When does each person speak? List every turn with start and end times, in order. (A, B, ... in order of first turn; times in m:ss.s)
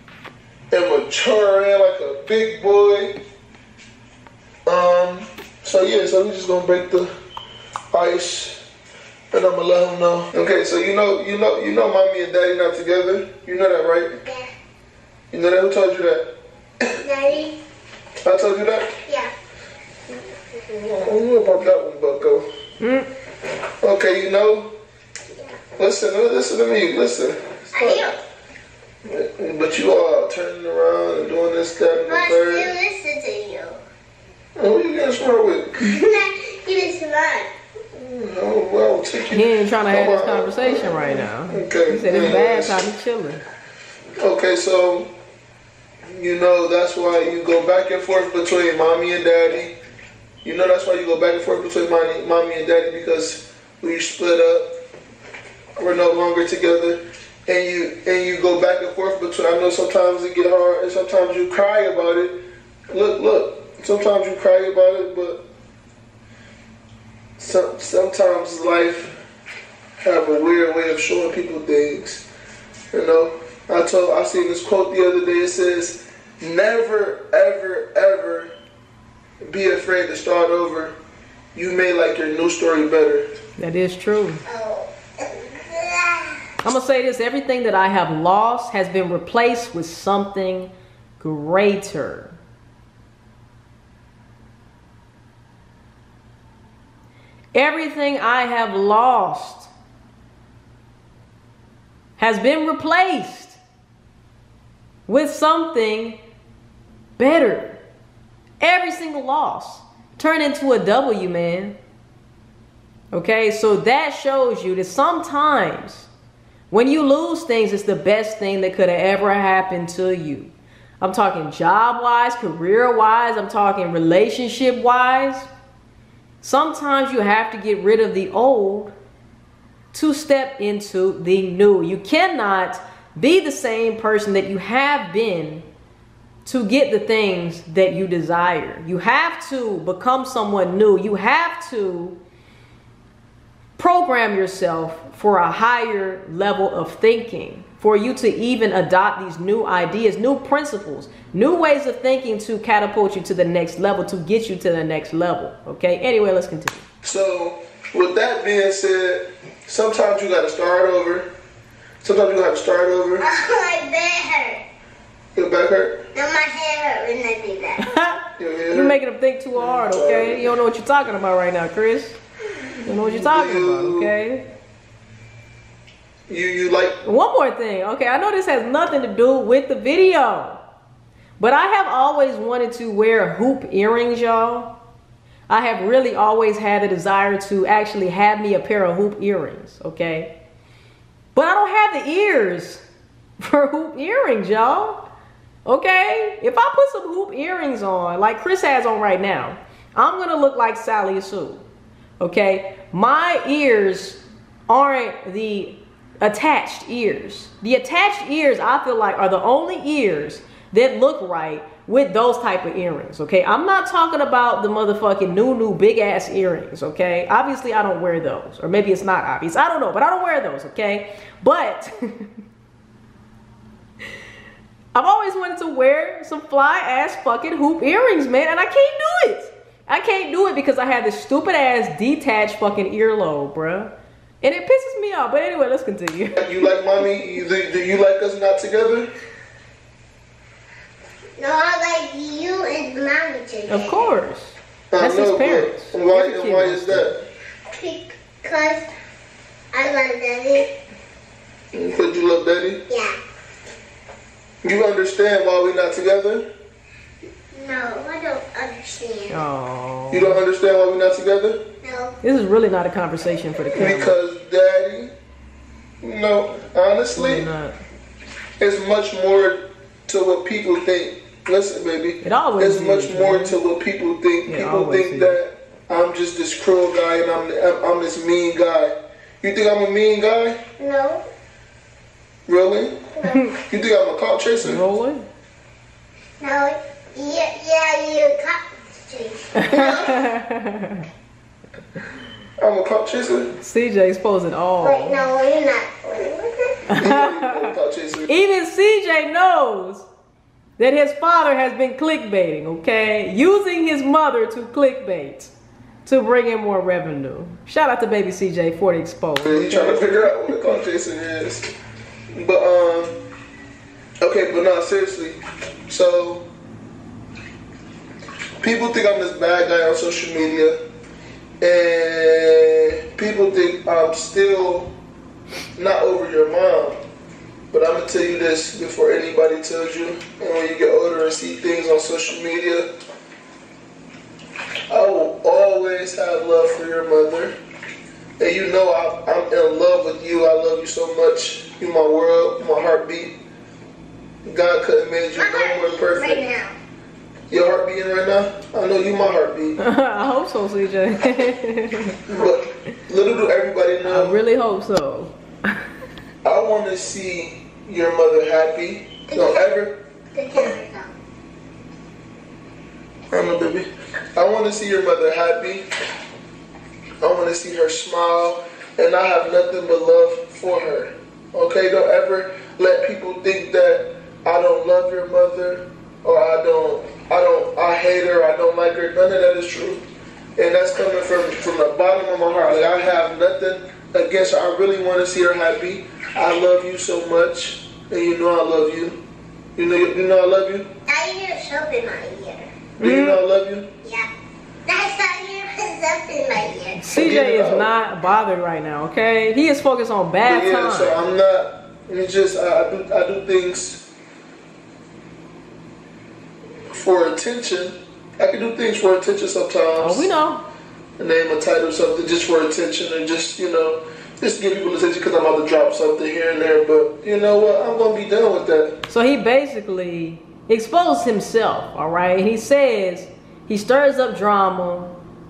0:00.7-0:03.2 A
0:04.6-0:07.1 A
0:07.9-0:08.6 A
0:09.3-0:14.2 A
0:14.2-0:14.5 B
0:15.3-0:16.3 A
0:17.0-0:17.6 B
0:18.2-0:18.9 A
0:19.0-0:19.3 B
0:20.7-0:22.4 A
0:22.8-0:23.1 C
0:23.8-0:24.7 A
0:25.8-0:28.1 A
0:27.7-0:28.2 B
0:29.0-0:32.7 A
0:32.1-0:33.8 B
0:34.6-0:35.9 A
0:35.8-0:37.5 B
0:37.9-0:42.8 A
0:39.3-0:43.4 C
0:44.2-0:45.1 A
0:46.1-0:49.7 A
0:50.4-0:54.7 A
0:55.8-1:02.4 A
1:02.9-1:05.4 A
1:07.4-1:09.2 A
1:10.0-1:12.2 A
1:12.9-1:18.5 A
1:19.4-1:21.0 A
1:21.5-1:23.2 A
1:23.6-1:24.4 C
1:24.4-1:26.5 B
1:26.6-1:32.4 C
1:37.5-1:39.7 C
1:42.2-1:43.6 C
1:45.1-1:46.2 C
1:47.2-1:47.8 C
1:48.6-1:51.8 C
1:53.1-1:56.1 C
1:56.7-2:05.5 C
2:06.4-2:08.9 C
2:09.9-2:15.6 C
2:16.4-2:22.2 C
2:23.8-2:36.8 C
2:37.0-2:41.3 A
2:42.0-2:43.2 A
2:43.2-2:44.6 B
2:45.3-2:46.0 A
2:46.1-2:47.9 B
2:47.8-2:52.2 C
2:48.4-2:48.9 A
2:49.6-2:50.6 A
2:52.8-2:54.4 C
2:52.9-2:54.1 A
2:56.3-2:57.0 A
2:57.0-3:00.6 C
3:01.4-3:04.7 C
3:05.5-3:10.3 C
3:11.3-3:12.8 C
3:13.4-3:15.0 C
3:15.6-3:21.6 C
3:22.2-3:42.3 C
3:44.9-3:53.9 C
3:54.4-3:57.0 C
3:56.4-3:59.1 A
4:01.4-4:04.0 B
4:03.7-4:07.1 C
4:04.9-4:07.2 A
4:07.7-4:08.9 B
4:09.7-4:10.7 B
4:11.7-4:12.8 A
4:12.9-4:13.2 B
4:14.6-4:16.5 A
4:17.5-4:19.4 B
4:19.3-4:20.4 C
4:20.1-4:21.6 A
4:21.8-4:22.1 B
4:22.2-4:24.2 C
4:23.7-4:25.1 A
4:26.0-4:27.5 A
4:27.2-4:27.8 C
4:28.6-4:40.6 A
4:32.2-4:33.6 C
4:34.5-4:35.4 C
4:40.8-4:41.2 B
4:42.5-4:44.8 A
4:43.2-4:43.5 B
4:43.3-4:43.5 C
4:44.6-4:45.2 C
4:46.4-4:50.2 B
4:49.5-4:51.1 C
4:52.6-4:53.5 A
4:53.6-4:55.2 C
4:54.8-4:56.8 B
4:56.9-4:57.7 C
4:57.0-4:58.3 A
4:58.3-5:00.0 C
5:00.8-5:05.5 C
5:06.0-5:10.8 C
5:09.4-5:11.6 A
5:12.4-5:13.1 A
5:14.2-5:16.4 A
5:18.6-5:20.8 A
5:21.6-5:24.9 A
5:25.8-5:27.0 A
5:27.7-5:32.9 A
5:34.9-5:37.5 A
5:38.4-5:43.4 A
5:44.4-5:46.4 A
5:45.3-5:46.7 B
5:47.5-5:49.8 A
5:49.8-5:52.2 C
5:52.2-5:54.4 A
5:54.0-5:55.8 C
5:56.4-6:00.0 A
5:59.3-5:59.7 B
6:00.3-6:01.1 B
6:03.3-6:05.8 A
6:07.2-6:20.0 A
6:20.6-6:29.2 A
6:29.8-6:30.9 A
6:31.1-6:32.7 B
6:33.0-6:33.4 C
6:33.0-6:33.9 A
6:34.0-6:34.3 B
6:34.8-6:37.0 B
6:37.0-6:41.2 C
6:37.1-6:37.9 A
6:40.4-6:44.1 A
6:46.9-6:50.3 A
6:50.0-6:50.6 C
6:51.2-6:58.9 A
6:59.1-7:05.2 C